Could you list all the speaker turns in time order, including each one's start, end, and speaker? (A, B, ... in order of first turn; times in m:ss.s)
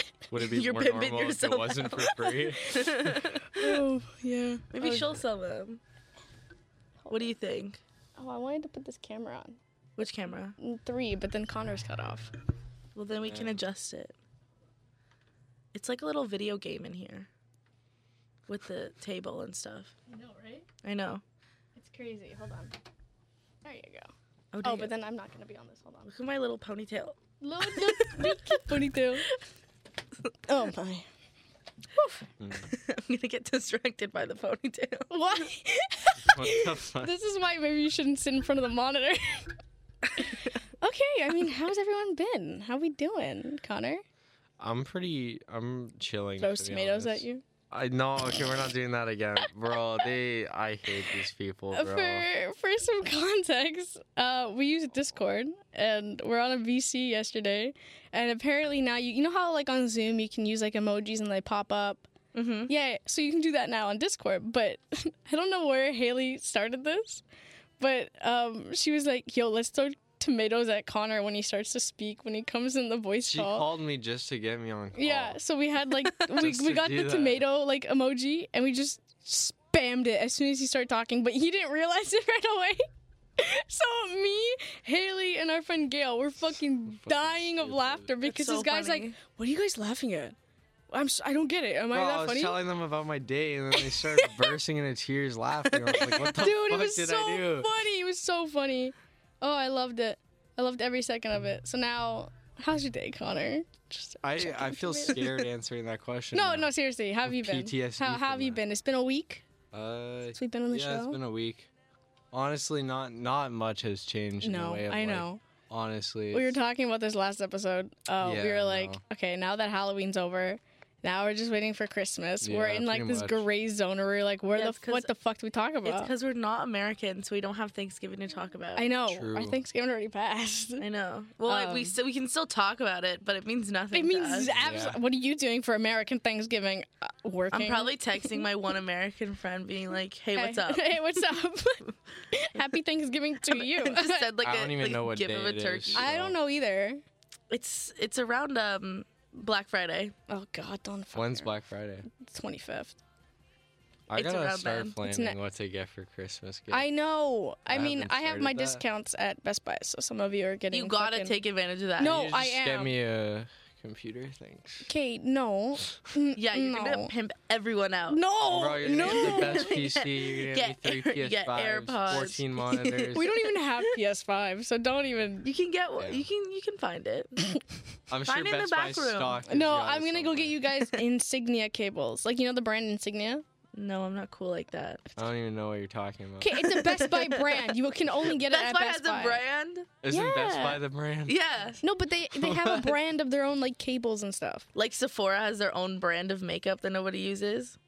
0:00.3-0:03.3 A
0:00.3-0:02.2 B
0:02.1-0:05.0 C
0:02.7-0:03.7 B
0:04.7-0:05.8 B
0:07.0-0:07.3 C
0:07.1-0:07.8 B
0:08.2-0:09.6 C
0:10.0-0:10.6 B
0:10.6-0:12.3 C
0:12.9-0:14.1 B
0:15.7-0:17.3 B
0:18.5-0:19.9 B
0:20.1-0:20.7 C
0:20.8-0:21.2 B
0:21.7-0:22.7 C
0:23.6-0:24.1 C
0:24.5-0:24.9 B
0:24.6-0:26.1 C
0:26.1-0:28.8 B
0:27.4-0:29.3 C
0:30.5-0:31.1 C
0:31.9-0:32.3 C
0:32.4-0:32.7 A
0:32.7-0:35.4 B
0:35.1-0:39.5 C
0:36.2-0:37.1 A
0:40.2-0:44.0 C
0:44.6-0:52.2 A
0:46.4-0:47.4 C
0:51.7-1:02.0 C
1:02.3-1:02.7 B
1:02.7-1:07.2 C
1:07.8-1:13.7 C
1:13.2-1:15.4 A
1:14.9-1:22.8 C
1:16.3-1:17.4 A
1:23.4-1:30.3 C
1:26.9-1:28.1 A
1:28.2-1:29.1 B
1:30.9-1:32.6 C
1:31.9-1:37.7 A
1:36.0-1:45.2 C
1:44.2-1:48.6 A
1:46.3-1:49.4 C
1:49.7-1:51.7 A
1:50.3-1:51.2 C
1:52.3-1:56.6 A
1:54.4-1:55.4 C
1:56.3-2:06.1 C
1:58.2-1:59.0 A
2:02.4-2:03.4 A
2:04.5-2:05.1 B
2:05.8-2:08.9 B
2:08.8-2:10.8 C
2:09.1-2:09.6 A
2:10.8-2:14.5 B
2:11.5-2:11.9 C
2:13.9-2:18.4 C
2:14.4-2:15.0 A
2:17.5-2:21.0 B
2:20.3-2:24.3 C
2:23.4-2:26.1 B
2:24.4-2:26.4 A
2:25.9-2:27.0 C
2:27.5-2:30.1 B
2:30.3-2:31.5 C
2:31.1-2:32.1 A
2:32.2-2:33.0 C
2:34.1-2:36.9 A
2:34.1-2:35.0 B
2:35.0-2:35.4 C
2:36.7-2:41.4 C
2:37.7-2:38.8 A
2:40.7-2:42.3 B
2:42.0-2:42.9 C
2:42.0-2:44.9 A
2:44.8-2:47.1 C
2:46.3-2:48.2 B
2:48.1-2:49.8 C
2:48.4-2:53.2 A
2:48.9-2:53.8 B
2:53.1-2:55.5 C
2:55.4-2:57.4 B
2:56.0-2:56.3 A
2:58.1-3:00.6 A
2:58.2-2:59.4 B
2:59.5-3:03.4 C
3:03.7-3:05.0 B
3:05.2-3:06.6 A
3:06.4-3:09.4 C
3:06.6-3:07.7 B
3:08.2-3:10.0 B
3:10.0-3:11.4 A
3:10.1-3:10.8 C
3:11.3-3:11.8 B
3:11.8-3:14.6 C
3:12.3-3:13.0 A
3:14.7-3:17.8 B